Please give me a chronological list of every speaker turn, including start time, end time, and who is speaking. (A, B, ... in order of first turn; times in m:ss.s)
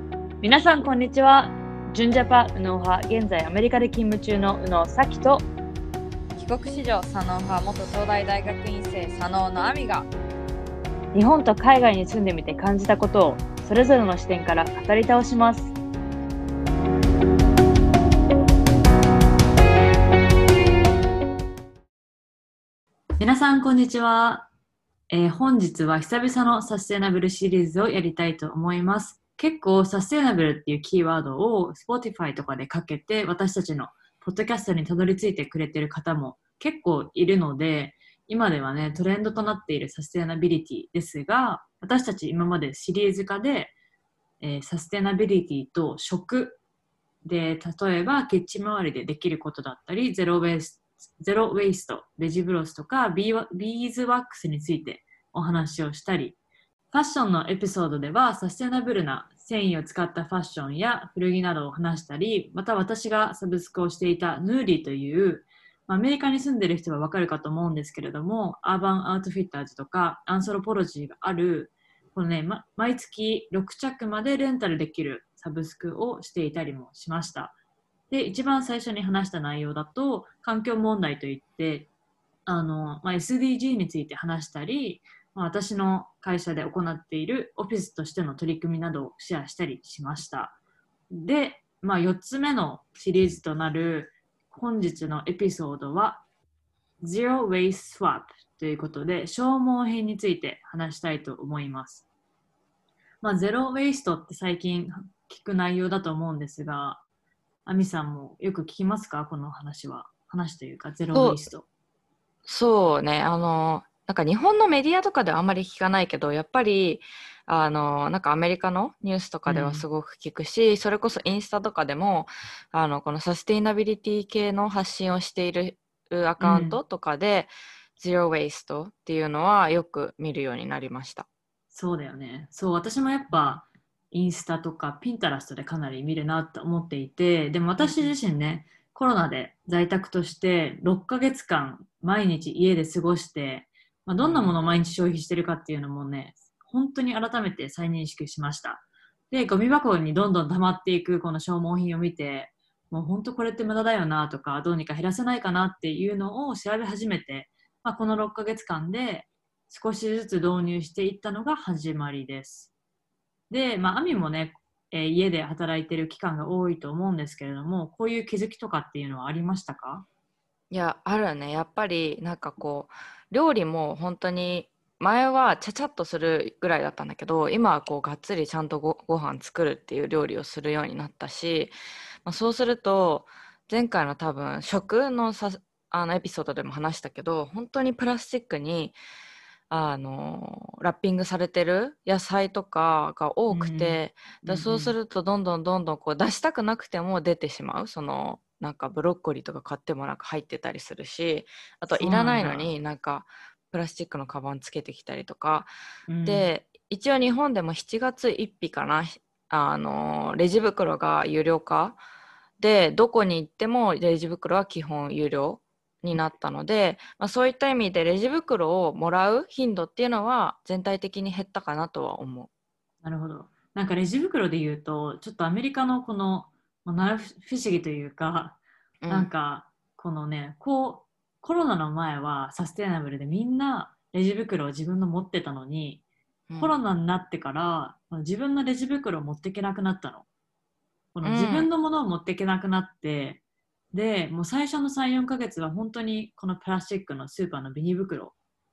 0:00.4-0:05.4 A
0:06.4-0:10.1 B
0:11.1-0:15.7 A
0:23.2-0:24.5 A
0:25.1-0:43.7 A
0:44.4-0:46.6 A
0:47.2-0:56.4 A
0:56.9-1:17.5 A
1:18.1-1:21.9 A
1:22.5-1:30.6 A
1:31.1-1:36.2 A
1:37.0-1:42.0 A
1:43.2-1:47.0 A
1:47.7-1:51.7 A
1:51.1-1:51.5 C
1:52.5-2:11.3 C
1:59.5-1:59.8 A
2:06.4-2:06.8 A
2:11.7-2:42.7 A
2:13.3-2:13.6 C
2:17.8-2:18.2 C
2:24.2-2:24.6 C
2:43.5-2:50.1 A
2:50.7-3:01.7 C
3:02.2-3:09.0 C
3:09.7-3:25.7 C
3:13.5-3:15.0 A
3:21.9-3:22.7 A
3:26.1-3:26.5 A
3:26.2-3:32.0 C
3:32.6-3:42.5 C
3:43.0-3:56.0 A
3:49.0-3:49.3 C
3:56.5-3:56.8 C
3:56.6-4:00.3 A
4:01.2-4:03.4 A
4:01.2-4:01.7 C
4:03.9-4:08.3 A